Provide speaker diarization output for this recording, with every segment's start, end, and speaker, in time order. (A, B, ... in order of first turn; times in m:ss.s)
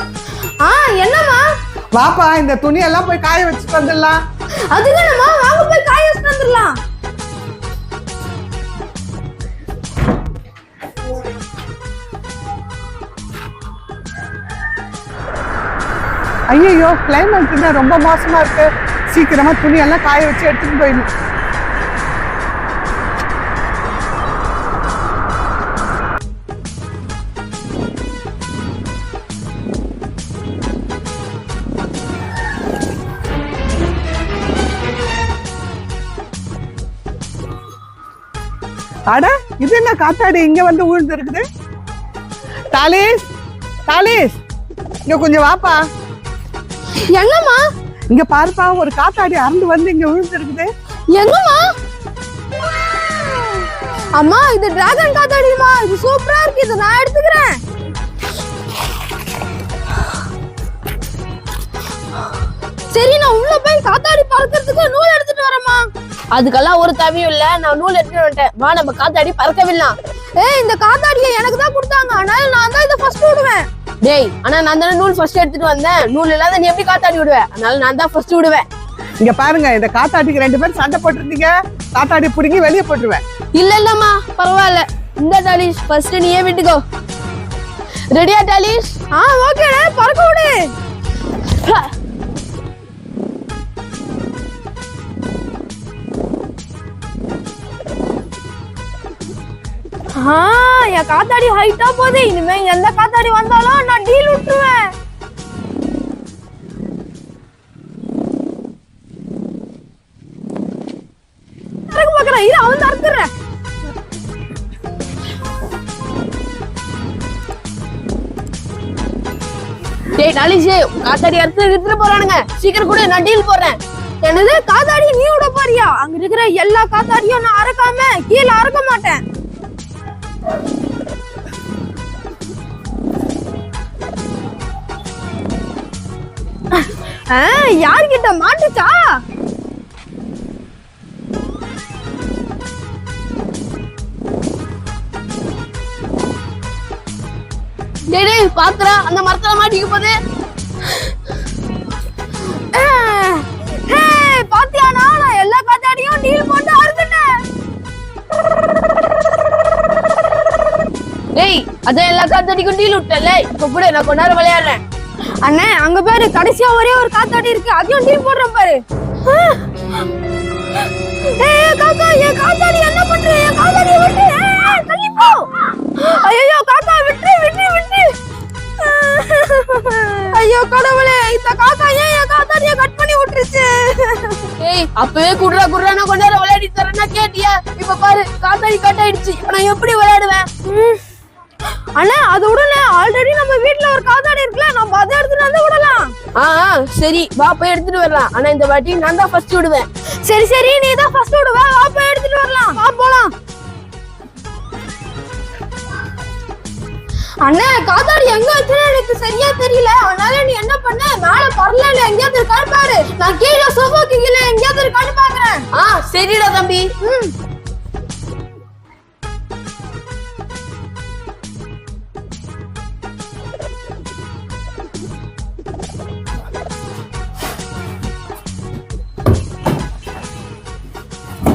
0:00.6-0:01.4 A
0:02.0-0:04.2 B
0:04.7-0:06.8 A
0:16.5-0:21.1 B
0:39.1-0:41.4 B
0:42.7-0:43.1 B
0:43.9-0:44.3 B
0:45.1-0:45.8 B
0:47.0-0:47.6 A
0:48.1-0:50.7 B
0:51.1-0:51.6 A
0:54.1-0:57.6 A
1:02.9-1:05.8 A
1:06.3-1:10.0 C
1:10.4-1:13.7 A
1:14.0-1:18.7 C
1:19.2-1:23.2 B
1:23.6-1:26.8 C
1:28.1-1:29.0 C
1:29.1-1:30.7 A
1:31.5-1:31.9 C
1:40.2-1:44.9 A
1:51.9-1:53.3 A
2:00.1-2:03.8 C
2:04.2-2:09.2 A
2:16.7-2:19.2 A
2:28.1-2:30.2 C
2:32.5-2:37.3 A
2:41.4-2:44.8 C
2:45.4-2:49.6 A
2:51.2-2:58.1 A
2:58.8-3:04.5 A
3:04.6-3:10.5 C
3:10.6-3:11.0 A
3:12.0-3:16.2 A
3:16.4-3:19.9 C
3:20.2-3:23.3 A
3:27.4-3:35.7 A
3:35.7-3:36.9 C
3:37.0-3:37.3 A